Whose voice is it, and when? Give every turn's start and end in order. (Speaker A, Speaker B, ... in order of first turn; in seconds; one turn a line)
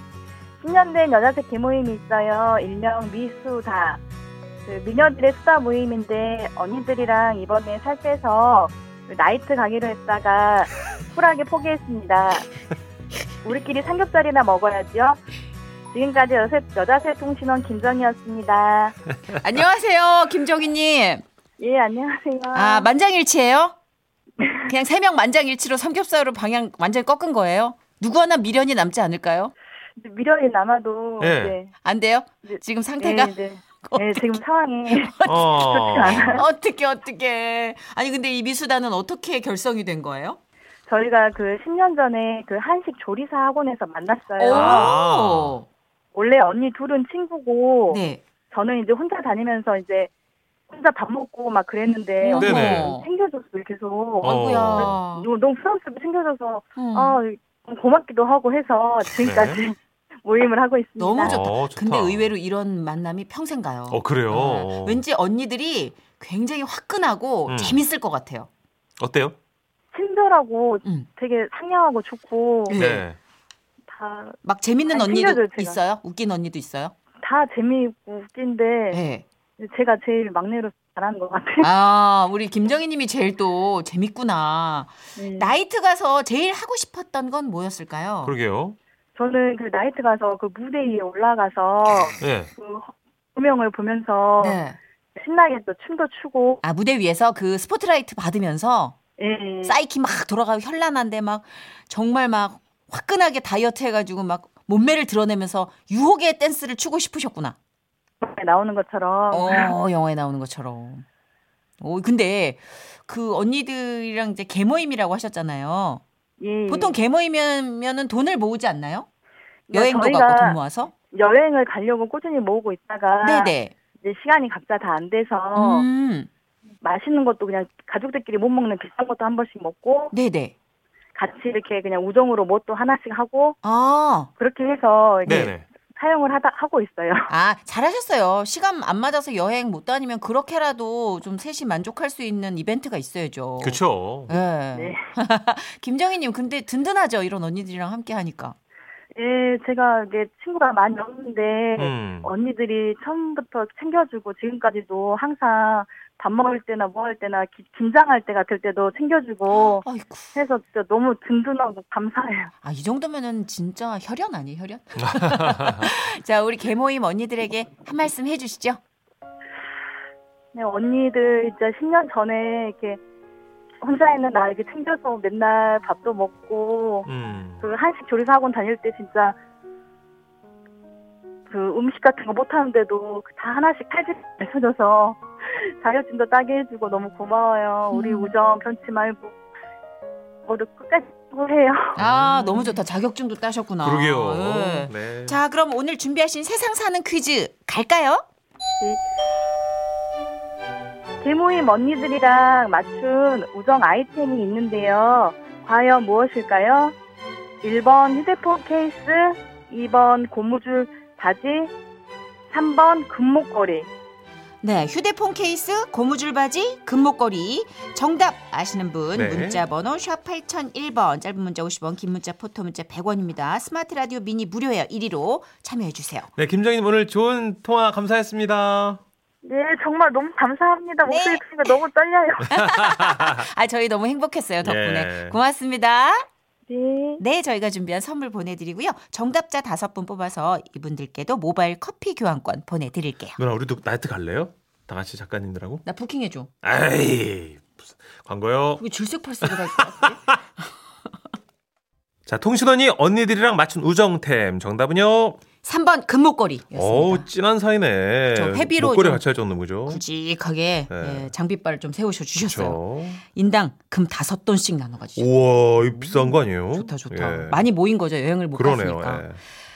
Speaker A: 0.6-4.0
Speaker A: 4.7-12.5
Speaker A: 13.4-15.2
Speaker A: 15.9-19.0
Speaker B: 19.3-21.2
Speaker A: 21.6-22.9
Speaker B: 22.5-23.8
Speaker A: 24.4-24.7
Speaker B: 24.7-29.5
Speaker A: 30.0-31.7
Speaker C: 31.2-31.6
Speaker B: 31.8-34.4
Speaker A: 32.5-36.5
Speaker B: 34.9-35.4
Speaker C: 35.3-36.4
Speaker B: 36.2-40.4
Speaker A: 40.9-44.9
Speaker B: 44.4-45.7
Speaker C: 44.5-45.6
Speaker A: 46.1-50.1
Speaker B: 47.9-48.2
Speaker A: 50.7-61.4
Speaker B: 52.2-53.1
Speaker C: 52.4-52.9
Speaker B: 54.2-55.3
Speaker C: 54.2-55.0
Speaker B: 56.8-57.2
Speaker C: 59.2-59.6
Speaker B: 61.0-68.5
Speaker C: 61.2-62.3
Speaker C: 63.9-65.0
Speaker C: 67.5-67.8
Speaker C: 69.0-69.4
Speaker A: 69.9-72.8
Speaker B: 72.7-73.1
Speaker C: 72.7-73.2
Speaker A: 73.9-75.8
Speaker B: 74.4-76.9
Speaker A: 77.2-79.0
Speaker B: 78.9-79.2
Speaker A: 79.6-81.7
Speaker B: 81.6-88.3
Speaker A: 85.2-85.5
Speaker C: 88.2-88.8
Speaker A: 89.2-94.6
Speaker C: 92.2-92.5
Speaker B: 94.4-94.8
Speaker A: 95.2-96.6
Speaker B: 96.6-99.0
Speaker A: 99.2-99.8
Speaker B: 99.6-107.6
Speaker A: 108.2-109.7
Speaker B: 109.3-111.0
Speaker B: 111.8-116.0
Speaker A: 116.4-117.0
Speaker B: 116.7-119.1
Speaker A: 119.7-120.6
Speaker B: 119.7-120.9
Speaker A: 121.1-125.9
Speaker B: 123.2-123.7
Speaker B: 125.5-126.3
Speaker A: 126.8-130.1
Speaker B: 130.1-130.5
Speaker A: 131.2-133.6
Speaker B: 133.6-134.3
Speaker A: 134.4-137.3
Speaker C: 135.2-135.7
Speaker B: 137.3-148.6
Speaker C: 143.6-144.3
Speaker A: 144.7-145.0
Speaker A: 149.2-162.5
Speaker C: 151.8-152.3
Speaker B: 159.6-160.4
Speaker B: 162.6-168.8
Speaker C: 165.0-165.9
Speaker A: 170.5-173.0
Speaker A: 173.8-177.1
Speaker C: 177.1-177.7
Speaker A: 177.6-179.4
Speaker A: 181.5-189.3
Speaker B: 187.9-188.3
Speaker A: 190.5-192.0
Speaker B: 192.0-198.2
Speaker C: 192.0-192.7
Speaker C: 193.8-195.4
Speaker A: 201.2-206.9
Speaker A: 207.6-211.7
Speaker A: 212.5-213.9
Speaker B: 214.6-226.3
Speaker C: 219.1-219.6
Speaker C: 226.4-229.0
Speaker A: 229.4-232.6
Speaker B: 231.1-231.8
Speaker B: 232.5-236.3
Speaker C: 232.5-233.5
Speaker C: 234.6-235.4
Speaker A: 236.7-237.2
Speaker B: 237.2-243.4
Speaker C: 243.4-245.8
Speaker B: 245.8-246.5
Speaker C: 246.6-248.8
Speaker B: 248.8-250.3
Speaker C: 249.4-250.4
Speaker C: 252.3-255.4
Speaker B: 255.6-257.3
Speaker C: 256.8-260.0
Speaker B: 258.3-259.2
Speaker B: 259.9-269.3
Speaker C: 260.9-261.3
Speaker C: 262.4-263.2
Speaker C: 265.2-267.6
Speaker C: 268.6-269.4